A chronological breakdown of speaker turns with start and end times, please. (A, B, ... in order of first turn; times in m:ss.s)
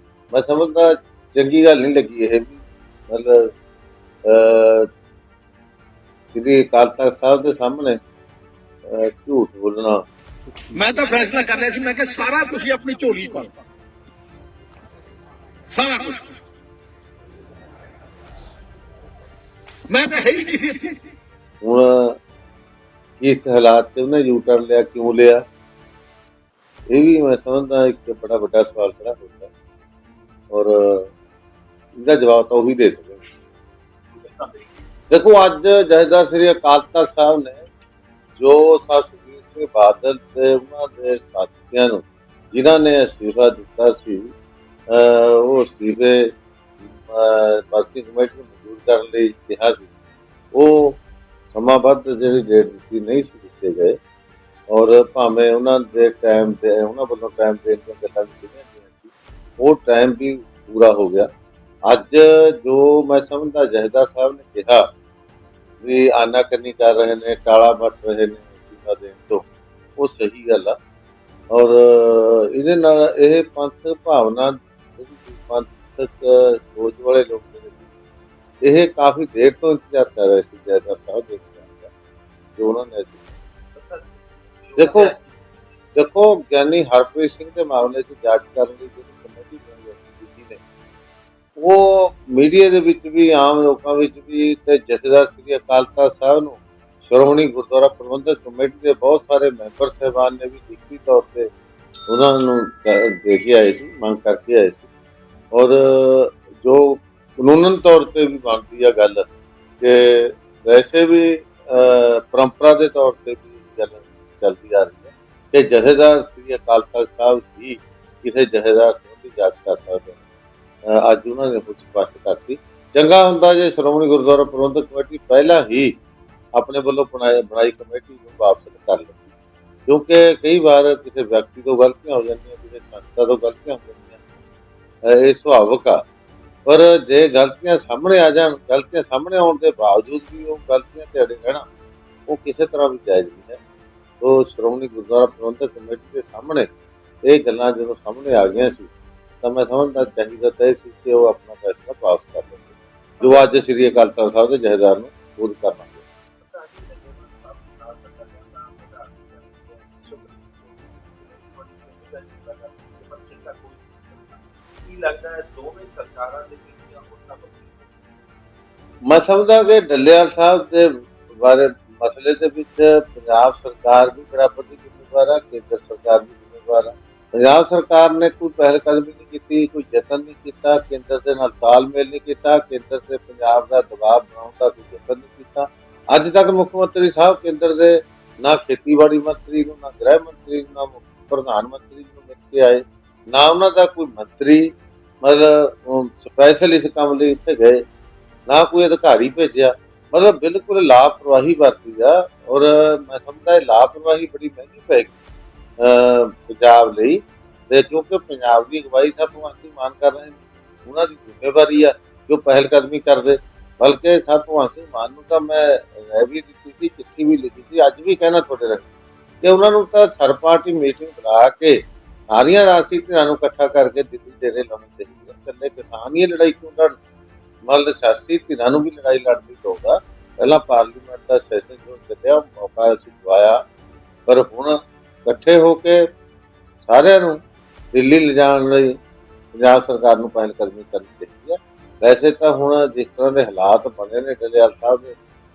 0:00.3-0:02.6 A
0:03.1-0:03.5 A
0:04.3-0:04.9 A
0:06.3-0:08.0 A
0:08.8-0:10.0 A
0:10.7-0:13.6 B
0:15.7-0:16.2 B
0:19.9-0:21.0 B
0:21.6-0:22.2 A
0:23.2-0:25.4 A
0:26.9-0:29.5 A
0:30.5-0:31.1 A
0:32.0-0:33.2 A
0:34.1-0:34.8 C
0:35.1-0:37.6 A
0:38.4-0:44.3 A
0:44.9-0:46.3 A
0:47.0-0:49.9 A
0:50.5-0:54.0 A
0:54.7-1:01.3 A
1:01.9-1:04.9 A
1:05.8-1:09.4 A
1:10.0-1:10.8 A
1:11.5-1:17.8 A
1:18.6-1:21.9 A
1:22.6-1:23.3 A
1:23.7-1:25.8 C
1:24.8-1:25.1 A
1:25.9-1:30.6 A
1:31.6-1:41.5 A
1:42.1-1:44.9 A
1:45.5-1:49.3 A
1:49.8-2:00.2 A
2:00.9-2:05.9 A
2:06.5-2:09.3 A
2:09.9-2:14.2 A
2:15.0-2:16.0 A
2:16.6-2:21.6 A
2:22.3-2:23.6 A
2:24.2-2:26.7 A
2:27.2-2:32.7 A
2:33.2-2:33.5 C
2:33.2-2:36.0 A
2:36.4-2:48.2 C
2:49.0-3:14.7 A
3:15.2-3:17.8 A
3:18.5-3:25.1 A
3:25.8-3:38.8 A
3:39.4-3:41.8 A
3:42.3-3:46.9 A
3:47.6-3:53.6 A
3:54.3-3:56.0 A
3:56.8-3:57.4 A
3:57.9-3:59.0 A
3:59.5-4:05.2 A